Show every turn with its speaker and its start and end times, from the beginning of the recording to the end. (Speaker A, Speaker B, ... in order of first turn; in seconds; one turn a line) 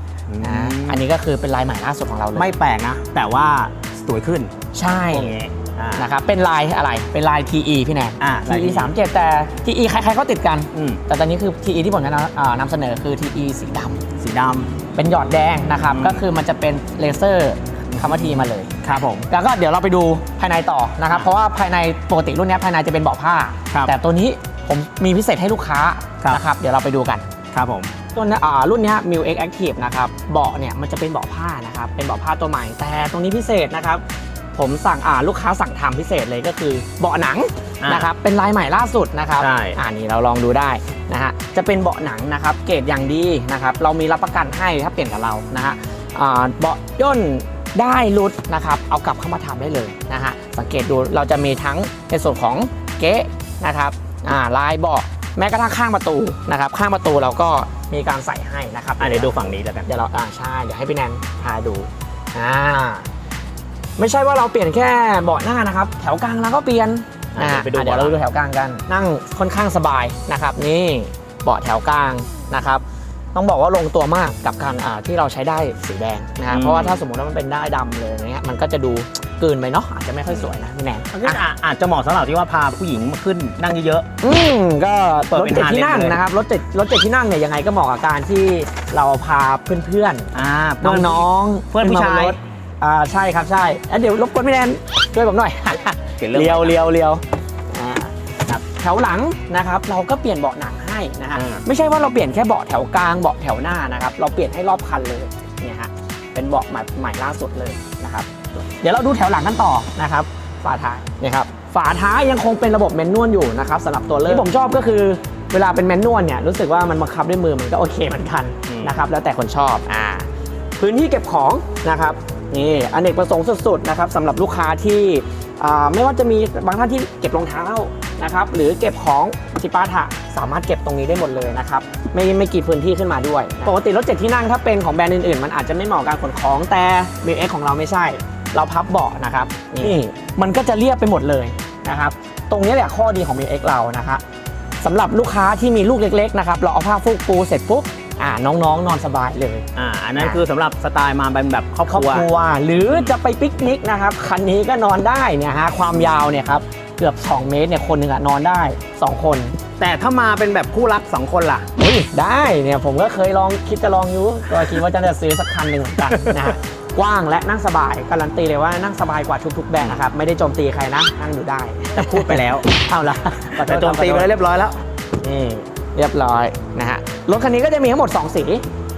Speaker A: 0.3-1.0
Speaker B: 0.4-2.5
Speaker A: 2.3-4.5
Speaker B: 4.7-5.4
Speaker A: 5.1-6.1
Speaker B: 6.0-14.0
Speaker A: 8.2-8.9
Speaker A: 10.7-11.0
Speaker A: 14.2-14.7
Speaker B: 14.9-27.3
Speaker A: 15.9-16.2
Speaker A: 18.8-19.3
Speaker A: 27.5-27.9
Speaker B: 28.1-34.0
Speaker B: 34.5-63.1
Speaker A: 37.8-38.1
Speaker A: 39.4-39.8
Speaker A: 59.0-59.9
Speaker B: 64.0-72.8
Speaker A: 67.3-68.2
Speaker B: 73.3-81.4
Speaker A: 76.5-77.0
Speaker A: 81.1-84.0
Speaker B: 84.2-144.2
Speaker A: 85.3-86.2
Speaker A: 90.3-92.4
Speaker A: 96.2-96.8
Speaker A: 101.3-101.6
Speaker A: 118.7-119.0
Speaker B: 144.8-149.7
Speaker A: 149.7-152.3
Speaker B: 151.9-159.6
Speaker A: 159.8-161.7
Speaker B: 161.8-174.3
Speaker A: 166.0-166.5
Speaker A: 171.9-172.7
Speaker A: 173.3-175.6
Speaker B: 175.9-178.7